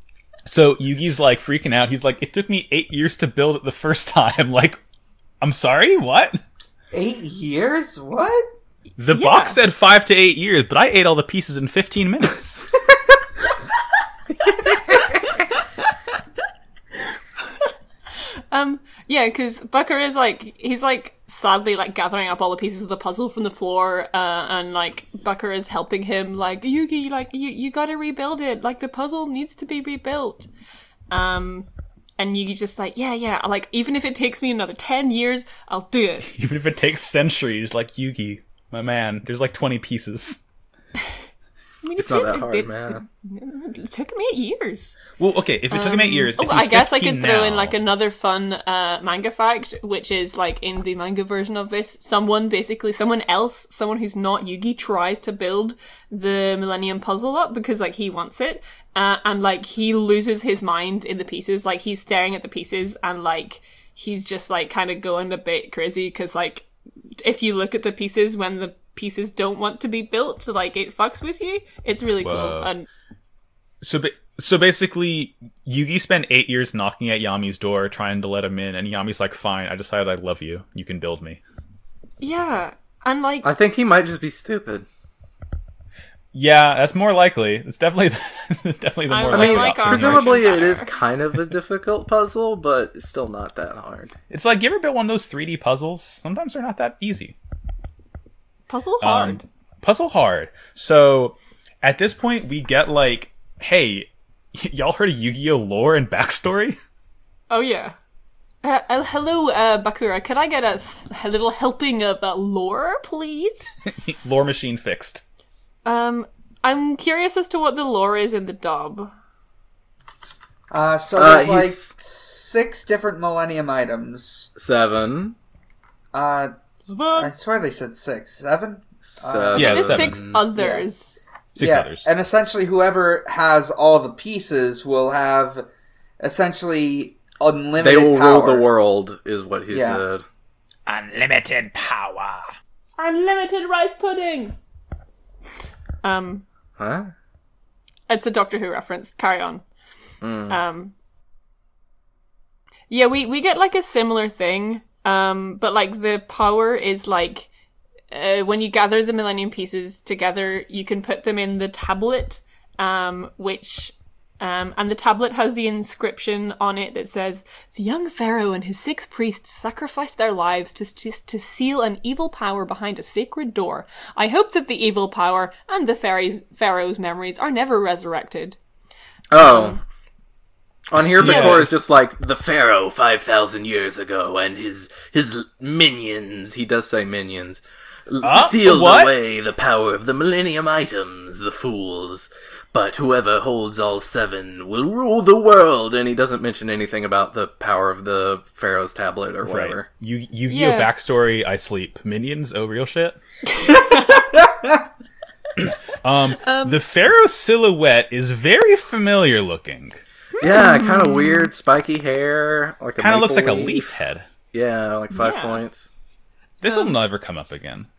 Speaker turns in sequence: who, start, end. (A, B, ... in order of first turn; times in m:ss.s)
0:00.5-0:04.8 A
0:05.4-0:06.4 A
0:06.9-0:08.5 B
0:09.0-0:12.7 A
0:09.1-0:09.6 C
0:14.9-0:15.2 C
0:18.5-0:30.5 C
0:31.1-0:31.7 C
0:32.2-0:36.3 C
0:36.2-0:40.4 A
0:41.8-0:45.0 C
0:42.0-0:43.0 D
0:45.2-0:47.8 A
0:45.7-1:06.7 C
1:07.2-1:12.9 C
1:12.2-1:12.7 A
1:13.8-1:21.4 A
1:22.2-1:23.5 C
1:23.4-1:24.9 D
1:26.3-1:30.7 A
1:29.1-1:30.9 C
1:29.3-1:34.1 D
1:34.3-1:37.4 A
1:38.7-1:39.4 C
1:39.0-1:46.8 A
1:47.5-1:48.0 C
1:48.6-1:53.8 C
1:53.9-1:55.2 A
1:55.8-1:59.1 C
2:00.7-2:04.5 B
2:01.2-2:01.9 D
2:04.6-2:05.4 D
2:06.1-2:06.5 B
2:06.9-2:07.3 A
2:07.1-2:09.8 B
2:09.0-2:10.5 D
2:09.6-2:10.2 A
2:09.6-2:11.2 C
2:10.5-2:10.9 B
2:11.6-2:12.1 A
2:11.6-2:15.7 B
2:16.2-2:18.7 B
2:17.8-2:20.2 D
2:19.7-2:20.0 B
2:20.9-2:22.5 A
2:23.0-2:24.6 C
2:26.0-2:26.4 C
2:26.8-2:27.1 D
2:28.1-2:29.6 C
2:30.2-2:30.6 D
2:30.5-2:30.9 C
2:32.9-2:37.5 C
2:38.1-2:58.6 C
2:59.3-2:59.8 D
2:59.4-2:59.8 C
3:00.9-3:19.9 D
3:01.2-3:01.8 A
3:01.2-3:01.7 C
3:08.2-3:09.2 A
3:19.4-3:23.2 A
3:20.5-3:20.9 C
3:23.5-3:24.3 C
3:24.3-3:24.7 B
3:25.6-3:30.0 A
3:26.4-3:26.8 C
3:30.4-3:31.5 C
3:30.4-3:35.9 D
3:33.0-3:34.2 A
3:35.1-3:35.6 C
3:36.6-3:37.9 A
3:36.6-3:36.9 C